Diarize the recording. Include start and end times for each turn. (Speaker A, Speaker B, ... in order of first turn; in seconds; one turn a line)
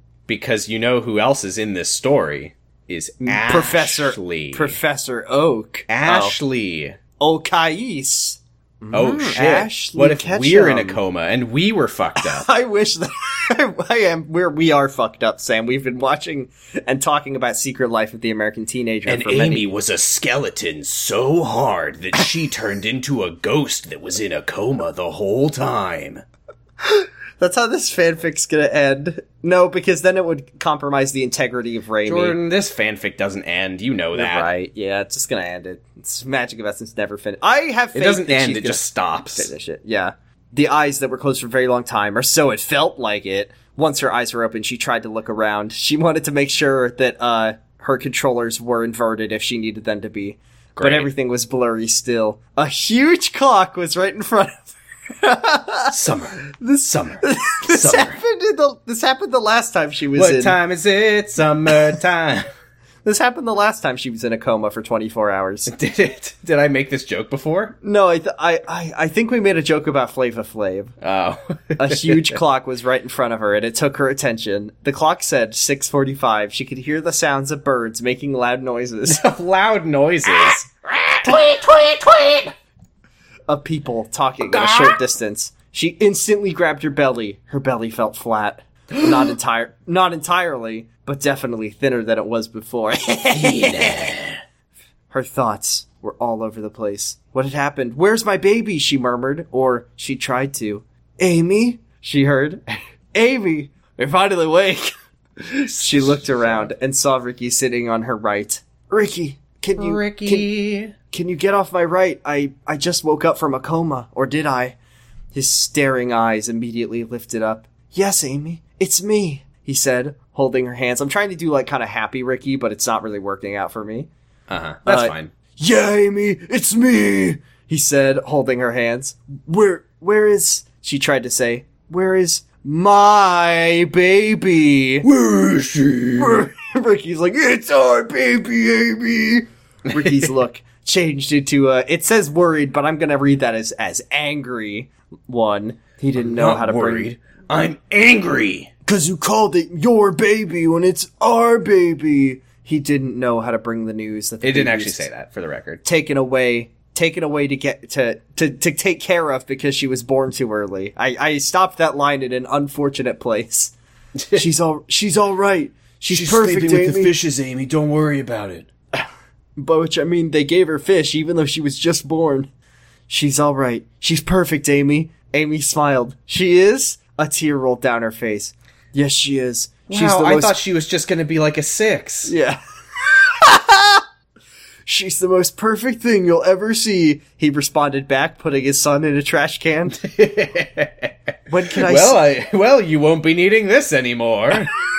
Speaker A: 0.3-4.8
Speaker B: 3.2-6.4
Speaker A: 5.9-7.0
Speaker B: 7.2-11.0
Speaker A: 8.9-12.5
Speaker B: 12.2-19.7
Speaker A: 19.1-26.2
Speaker B: 26.8-32.4
Speaker A: 32.0-34.5
Speaker B: 34.1-56.0
Speaker A: 37.9-39.5
Speaker A: 50.8-51.1
Speaker A: 55.9-58.2
Speaker B: 56.5-60.6
Speaker A: 60.1-62.5
Speaker B: 63.0-65.7
Speaker A: 65.7-67.8
Speaker B: 67.8-70.9
Speaker A: 71.0-72.4
Speaker B: 71.8-79.2
Speaker A: 79.1-82.5
Speaker B: 83.5-94.2
Speaker A: 84.4-85.0
Speaker A: 89.0-89.3
Speaker A: 93.3-94.4
Speaker B: 95.1-110.5
Speaker A: 105.7-106.7
Speaker A: 109.8-111.0
Speaker B: 111.1-114.8
Speaker B: 115.3-124.1
Speaker A: 124.5-125.3
Speaker B: 124.8-135.1
Speaker A: 135.0-136.5
Speaker B: 136.2-147.1
Speaker A: 140.0-140.3
Speaker A: 146.2-148.7
Speaker B: 148.9-155.1
Speaker A: 154.4-155.8
Speaker B: 155.8-163.7
Speaker B: 164.3-167.1
Speaker A: 166.1-168.7
Speaker B: 169.6-172.5
Speaker B: 173.1-180.6
Speaker A: 179.9-182.3
Speaker B: 182.2-182.6
Speaker B: 183.2-184.0
Speaker B: 184.9-190.0
Speaker A: 190.0-194.7
Speaker B: 191.5-192.2